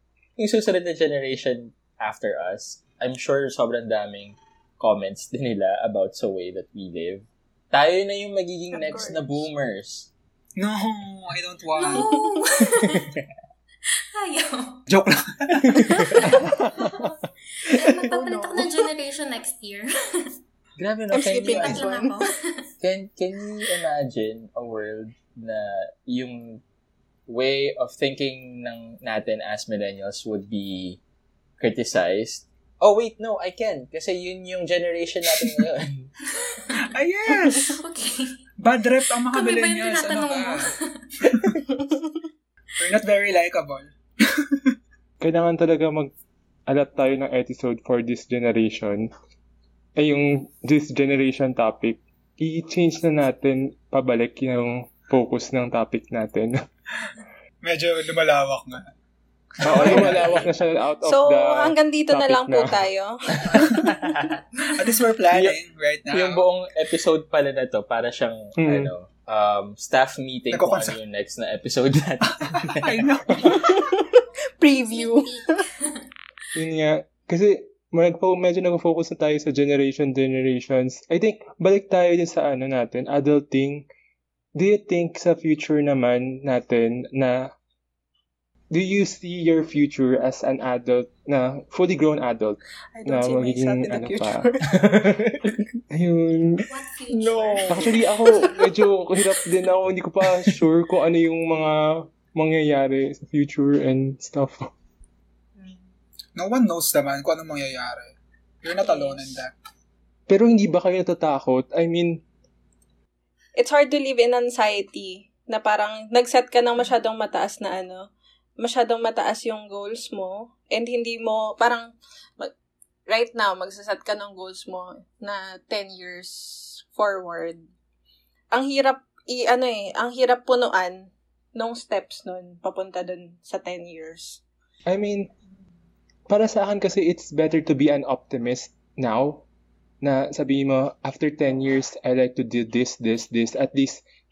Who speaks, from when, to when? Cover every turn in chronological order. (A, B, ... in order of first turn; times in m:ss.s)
0:00.4-0:10.1 A
0:08.7-0:09.4 B
0:10.6-0:12.1 C
0:11.8-0:13.2 D
0:11.9-0:12.2 B
0:13.9-0:14.8 D
0:14.9-0:16.0 C
0:15.6-0:16.3 A
0:16.2-0:16.9 D
0:16.5-0:16.9 E
0:17.6-0:20.3 D
0:18.0-0:18.7 B
0:20.8-0:21.9 A
0:21.1-0:22.2 B
0:21.3-0:22.7 D
0:22.8-0:26.6 A
0:27.3-0:31.0 A
0:31.6-0:36.1 A
0:36.8-0:37.8 C
0:37.6-0:38.4 D
0:38.6-0:40.7 C
0:39.1-0:41.2 D
0:41.3-0:41.5 C
0:41.7-0:42.1 B
0:42.8-0:44.7 C
0:45.2-0:46.1 E
0:46.7-0:49.1 E
0:50.0-0:56.5 E
0:57.6-0:58.9 C
0:59.6-1:00.4 C
0:59.6-1:02.8 E
0:59.8-1:00.2 A
1:01.0-1:03.9 B
1:03.4-1:04.3 A
1:04.7-1:06.4 C
1:06.1-1:12.9 A
1:08.6-1:08.9 E
1:10.5-1:11.0 C
1:12.4-1:13.8 C
1:13.4-1:15.6 B
1:14.7-1:16.1 D
1:16.6-1:23.9 E
1:24.6-1:27.5 E
1:28.7-1:35.2 E
1:32.9-1:34.6 B
1:34.7-1:35.5 A
1:35.9-1:36.7 E
1:36.7-1:38.8 D
1:37.1-1:38.1 A
1:37.7-1:44.7 E
1:45.6-1:45.9 D
1:46.4-1:49.5 C
1:48.9-1:49.2 B
1:50.3-1:52.2 E
1:53.6-1:58.1 B
1:58.6-2:02.5 B
2:03.1-2:07.7 B
2:08.5-2:14.4 B
2:14.9-2:15.3 E
2:16.3-2:19.4 E
2:20.0-2:24.0 E